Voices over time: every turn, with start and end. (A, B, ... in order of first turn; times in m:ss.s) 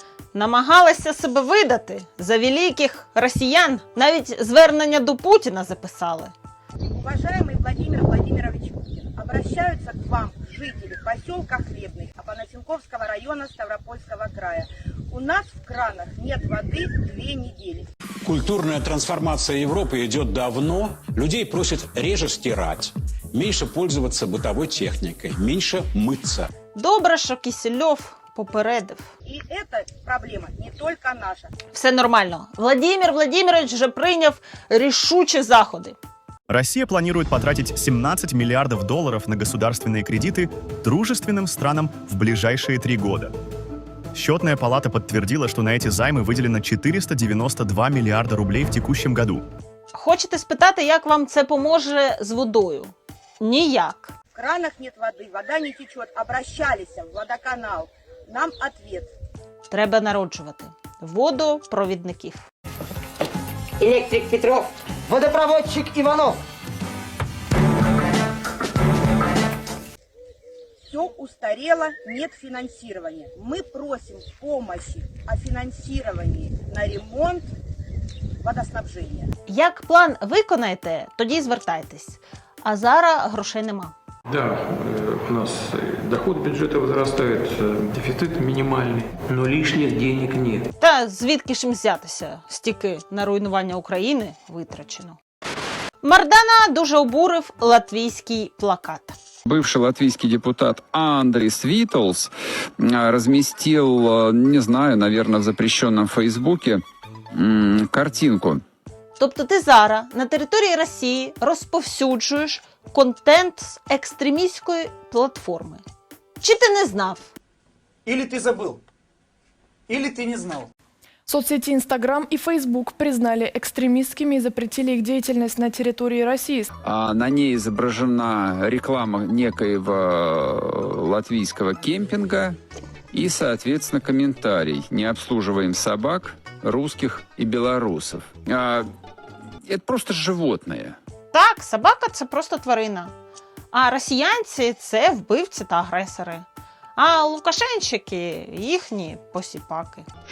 0:00.3-0:06.3 A
0:07.0-0:17.9 B
0:18.3-0:26.4 C
0:26.8-0:29.0 A
0:29.3-0:31.5 B
0:31.7-0:36.0 A
0:36.5-0:43.3 D
0:44.2-0:49.4 D
0:49.9-0:54.1 A
0:54.4-0:59.1 B
0:59.7-1:02.5 A
1:03.9-1:04.5 E
1:05.1-1:06.2 E
1:10.9-1:17.5 B
1:18.4-1:19.3 B
1:19.5-1:24.0 A
1:24.3-1:25.6 F
1:26.3-1:27.0 F
1:30.8-1:35.2 A
1:36.0-1:39.2 A
1:39.5-1:46.8 G
1:47.4-1:48.6 G
1:49.2-1:55.8 A
1:56.4-1:57.3 A
1:58.2-1:58.7 E
2:01.3-2:06.7 H
2:06.8-2:12.6 G
2:13.1-2:18.9 G
2:19.7-2:21.0 G
2:21.3-2:23.1 A
2:23.7-2:30.0 A